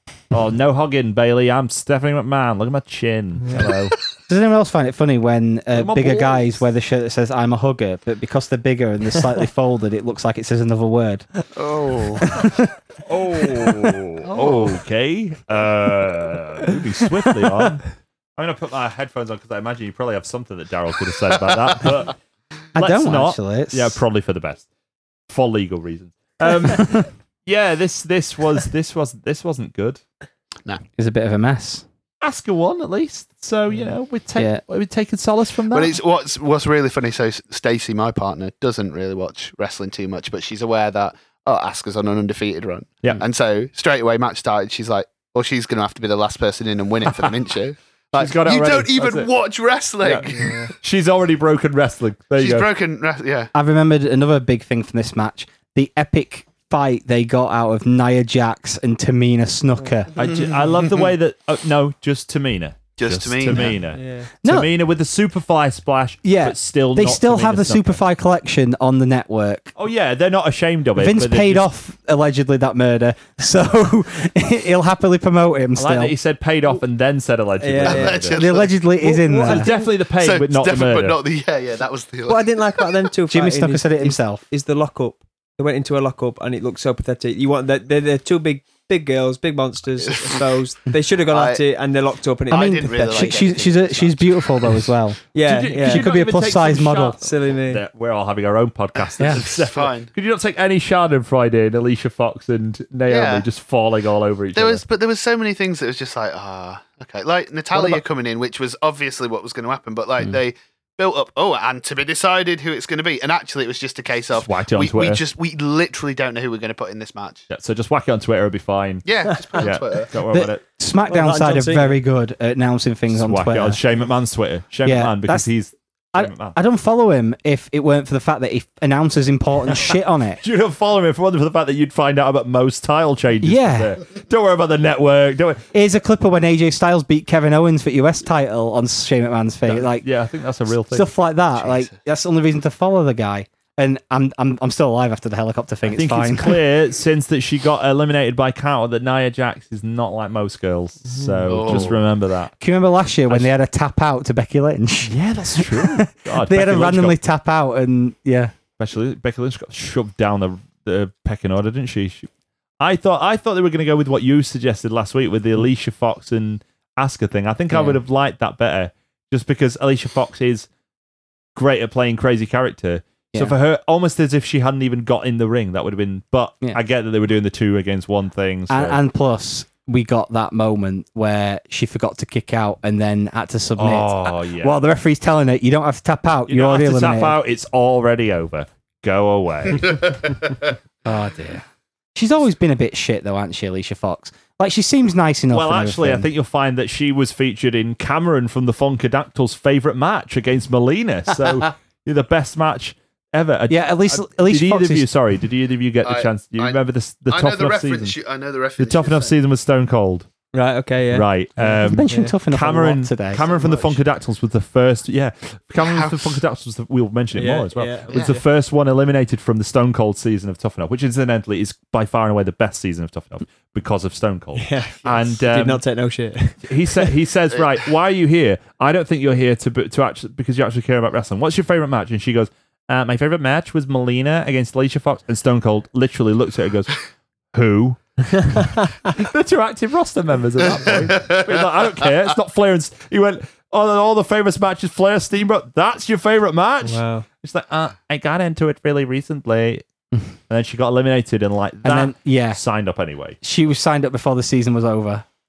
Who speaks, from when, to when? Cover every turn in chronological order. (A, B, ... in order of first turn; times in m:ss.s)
0:00.3-0:04.0 A
0:03.4-0:03.7 B
0:04.3-0:11.3 C
0:05.7-0:06.6 A
0:11.6-0:12.2 D
0:12.2-0:12.7 C
0:13.0-0:17.9 A
0:14.3-0:14.7 D
0:18.4-0:22.2 A
0:22.8-0:24.0 C
0:22.8-0:24.7 A
0:25.3-0:30.0 A
0:31.0-0:31.8 C
0:32.2-0:36.0 A
0:34.4-0:34.6 C
0:35.7-0:50.6 D
0:47.1-0:47.3 A
0:48.2-0:49.3 A
0:50.0-0:52.7 A
0:50.4-0:50.7 B
0:52.4-0:53.5 D
0:53.5-1:00.1 C
1:00.2-1:08.0 A
1:00.2-1:01.1 D
1:03.0-1:03.8 D
1:03.9-1:04.3 B
1:04.4-1:04.7 C
1:06.2-1:09.7 C
1:09.8-1:11.6 A
1:11.0-1:16.2 C
1:15.8-1:18.4 A
1:17.6-1:18.3 B
1:17.8-1:18.7 D
1:18.3-1:19.7 C
1:19.0-1:19.9 B
1:19.4-1:21.2 A
1:20.1-1:22.9 D
1:22.3-1:33.3 B
1:23.3-1:24.4 C
1:30.1-1:30.4 D
1:31.3-1:31.6 D
1:32.5-1:34.8 D
1:32.5-1:35.2 C
1:35.3-1:36.1 B
1:35.4-1:44.8 A
1:35.8-1:37.2 C
1:37.2-1:37.8 B
1:39.2-1:39.5 C
1:39.2-1:40.1 D
1:43.1-1:43.5 D
1:44.6-1:57.5 D
1:47.7-1:48.0 A
1:54.3-1:55.2 A
1:57.5-2:00.6 A
1:59.0-2:00.1 D
2:00.3-2:03.8 C
2:01.1-2:02.0 B
2:03.1-2:06.6 A
2:04.8-2:05.5 C
2:06.1-2:10.4 C
2:10.4-2:15.7 A
2:13.4-2:14.0 C
2:15.7-2:20.1 C
2:19.7-2:21.1 A
2:20.7-2:26.6 C
2:21.6-2:21.9 D
2:25.9-2:32.5 A
2:31.1-2:31.5 B
2:31.5-2:32.0 D
2:32.6-2:38.5 C
2:35.0-2:37.2 A
2:38.8-2:42.3 A
2:42.8-2:50.7 A
2:47.7-2:48.0 C
2:51.6-2:59.0 A
2:58.7-3:07.4 C
3:03.8-3:04.8 A
3:06.5-3:10.2 A
3:11.0-3:11.6 C
3:12.2-3:16.3 C
3:15.5-3:28.2 A
3:23.7-3:25.1 C
3:26.0-3:29.4 D
3:28.8-3:30.3 A
3:30.5-3:32.3 B
3:31.1-3:45.8 A
3:31.7-3:33.4 C
3:33.4-3:34.0 D
3:35.8-3:36.4 D
3:37.4-3:38.4 B
3:44.6-3:47.1 B
3:45.0-3:45.4 D
3:46.6-4:09.8 A
3:58.5-3:58.9 B
4:00.7-4:01.6 D
4:06.8-4:07.2 B
4:10.5-4:13.4 A
4:11.8-4:12.6 C
4:13.4-4:15.2 C